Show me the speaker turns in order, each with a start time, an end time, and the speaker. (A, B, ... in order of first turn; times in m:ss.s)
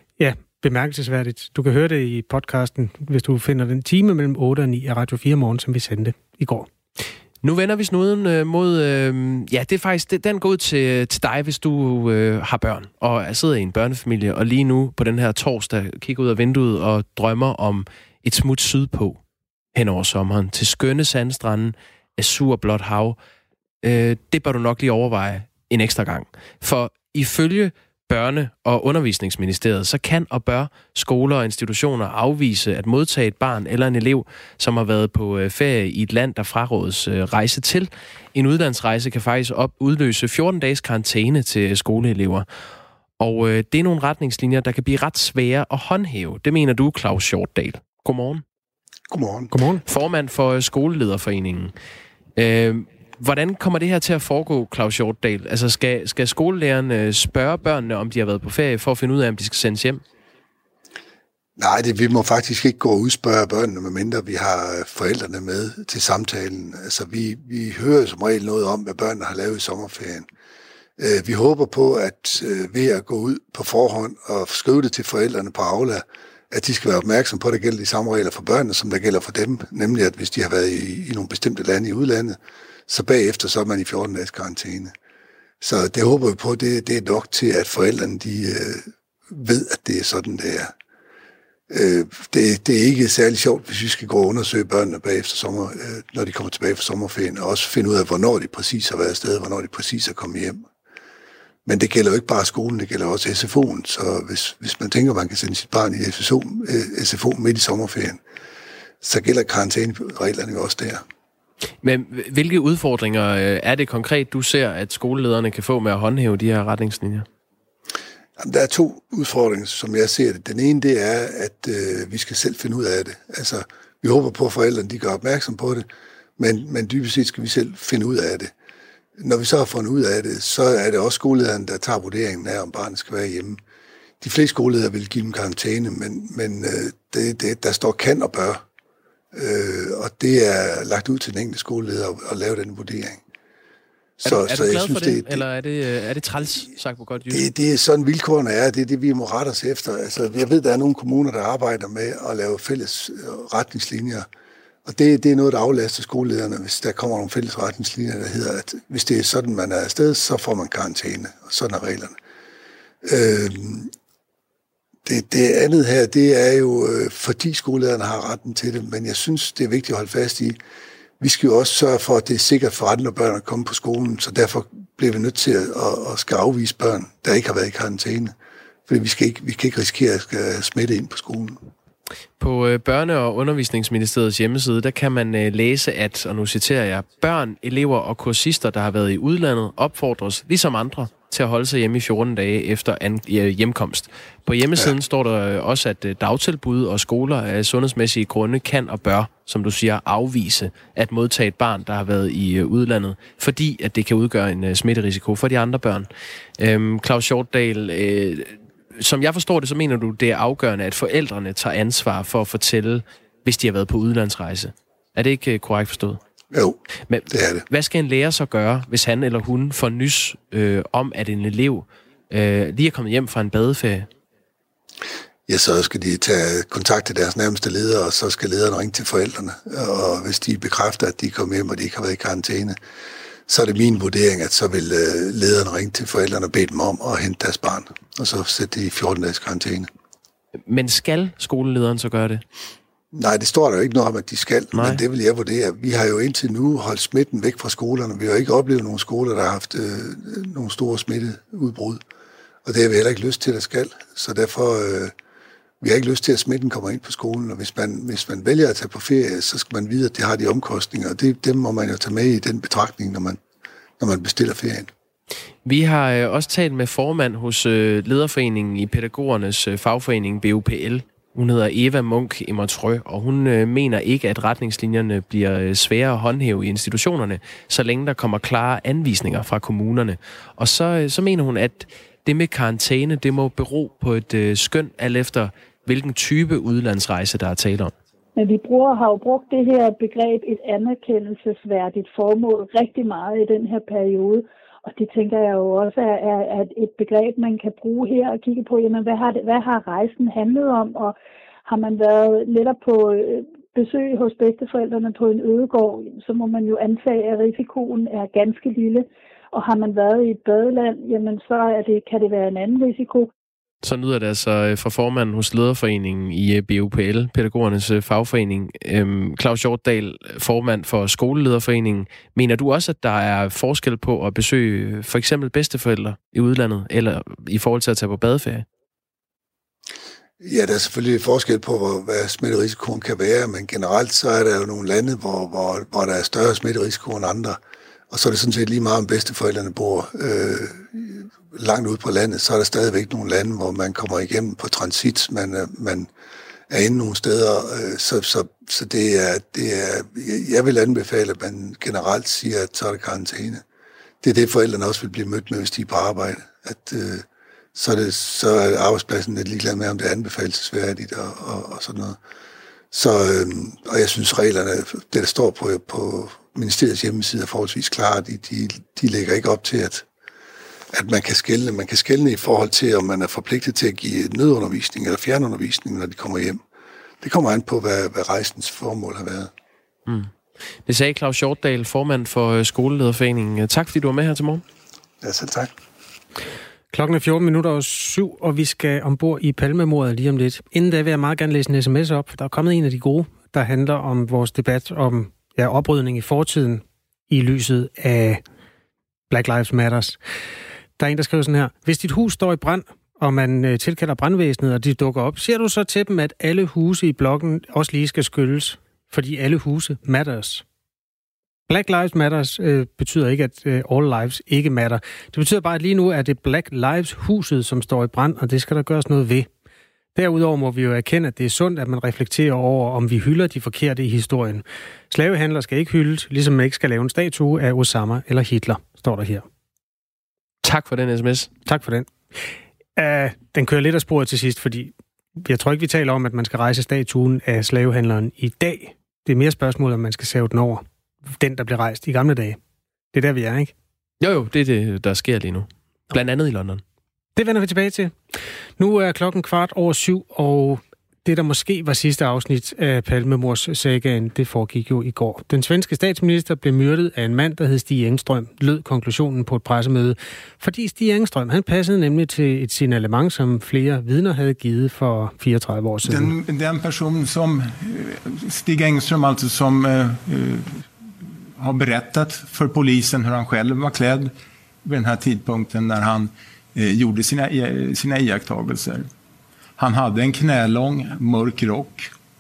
0:00.2-0:06.7 A
0:07.4-0:19.2 B
0:19.7-0:23.2 B
0:23.8-0:42.5 B
0:43.2-0:48.4 B
0:49.1-0:49.5 C
0:49.5-0:49.8 A
0:49.8-0:51.7 B
0:52.4-1:00.0 B
1:01.6-1:10.3 C
1:11.0-1:24.9 C
1:25.6-1:30.7 C
1:31.7-1:40.6 C
1:41.7-1:48.2 C
1:49.0-1:51.0 C
1:51.8-1:57.3 B
1:58.4-2:05.9 C
2:06.4-2:08.5 C
2:09.2-2:13.6 C
2:14.2-2:18.6 C
2:19.3-2:23.2 C
2:24.2-2:25.4 C
2:24.2-2:27.5 B
2:27.3-2:34.3 C
2:34.8-2:42.2 C
2:43.0-2:43.9 C
2:45.1-2:50.6 C
2:51.2-2:58.3 C
2:58.9-3:01.7 C
3:02.4-3:36.2 B
3:36.5-3:36.8 C
3:37.1-3:44.1 B
3:37.3-3:37.6 C
3:45.5-3:52.8 C
3:53.5-3:59.9 C
4:00.7-4:02.4 B
4:03.1-4:12.0 C
4:04.7-4:05.0 B
4:12.6-4:15.1 C
4:15.8-4:23.4 C
4:24.0-4:24.9 C
4:25.6-4:47.9 B
4:48.4-5:13.3 D
5:13.8-5:28.6 B
5:30.4-5:37.6 C
5:38.1-5:46.1 C
5:46.7-5:53.6 C
5:54.2-6:02.2 C
6:02.9-6:10.1 C
6:10.9-6:16.6 C
6:17.2-6:19.5 C
6:20.1-6:20.3 B
6:20.8-6:24.6 B
6:25.2-6:25.7 C
6:26.9-6:38.4 A
6:39.3-6:40.2 A
6:41.0-6:50.6 A
6:51.7-6:59.5 A
7:00.2-7:09.4 A
7:10.6-7:11.5 B
7:11.7-7:12.1 A
7:13.0-7:20.8 A
7:21.4-7:22.6 A
7:23.1-7:23.7 A
7:24.2-7:26.8 B
7:27.4-7:28.2 A
7:28.8-7:46.3 A
7:46.0-7:50.9 E
7:51.6-7:54.3 E
7:54.8-7:59.1 E
7:59.8-8:02.1 E